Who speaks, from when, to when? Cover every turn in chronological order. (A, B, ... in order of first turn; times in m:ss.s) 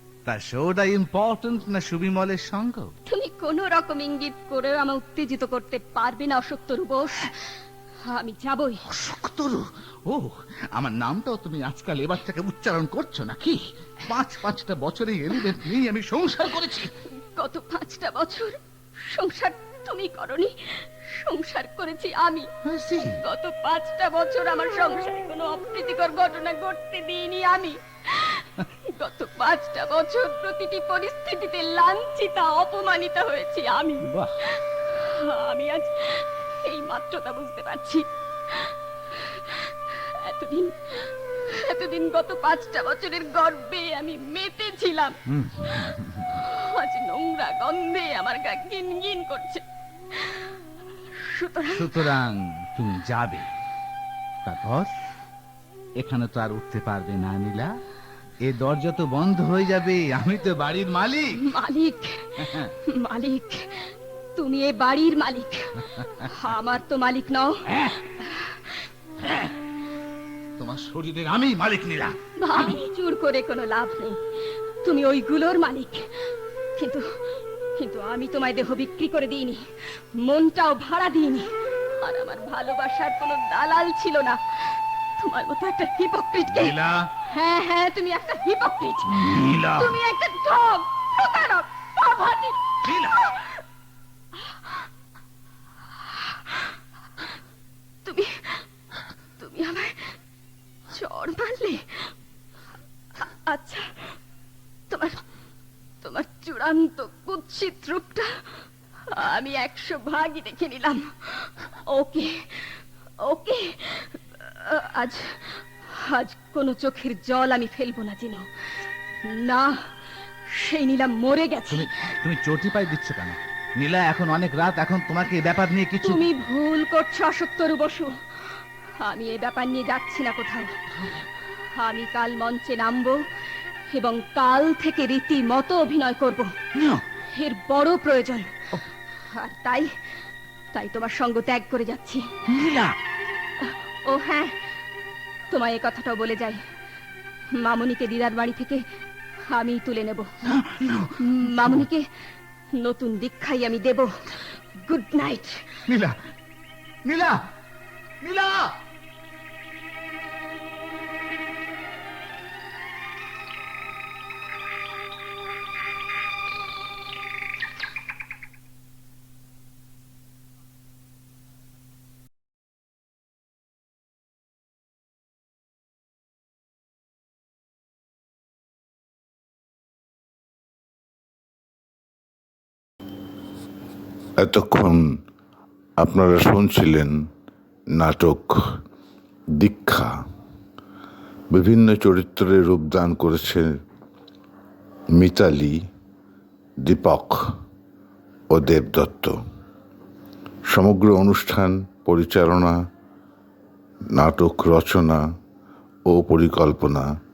0:00.2-0:02.9 A
0:03.1-0:08.8 B
0:08.8-0:16.9 A
0:17.2-0:22.5 B
0:22.6-0:23.2 A
0:23.1-0:45.2 B
0:34.0-0:34.4 A
0:45.3-0:46.4 A
0:46.3-0:50.5 B
0:51.1-0:52.1 B
0:51.7-0:53.5 A
0:54.4-0:54.9 A
0:56.0-0:57.8 A
0:58.4-1:01.4 A
1:01.4-1:08.7 B
1:02.4-1:02.7 A
1:09.2-1:09.5 A
1:10.6-1:12.7 A
1:12.4-1:14.2 B
1:14.8-1:17.1 B
1:17.8-1:19.6 B
1:20.2-1:21.5 B
1:22.0-1:26.7 B
1:26.4-1:27.1 A
1:27.2-1:33.6 B
1:29.0-1:30.0 A
1:32.8-1:33.2 A
1:34.4-1:34.8 B
1:36.0-1:36.7 B
1:38.0-1:38.6 B
1:39.4-1:40.2 B
1:40.9-1:42.1 B
1:43.2-1:44.1 B
1:44.9-1:45.2 B
1:46.0-1:58.4 B
1:59.3-1:59.9 B
2:00.5-2:01.9 B
2:01.7-2:06.3 A
2:06.0-2:10.8 B
2:10.9-2:11.2 A
2:11.8-2:13.2 B
2:13.9-2:16.5 B
2:16.7-2:17.0 A
2:17.3-2:18.6 B
2:19.3-2:19.9 B
2:20.7-2:22.3 B
2:22.4-2:23.0 A
2:23.6-2:24.6 B
2:25.5-2:26.6 B
2:27.5-2:28.8 B
2:29.5-2:30.3 B
2:30.4-2:31.9 A
2:31.2-2:32.0 B
2:32.8-2:35.6 B
2:35.9-2:36.2 A
2:37.0-2:37.4 A
2:38.2-2:38.8 A
3:04.4-3:05.2 C
3:06.0-3:07.3 C
3:07.9-3:08.8 C
3:09.5-3:10.2 C
3:11.5-3:13.8 C
3:15.1-3:15.8 C
3:16.8-3:17.4 C
3:18.5-3:19.4 C
3:20.7-3:22.8 C
3:24.1-3:25.2 C
3:26.0-3:27.1 C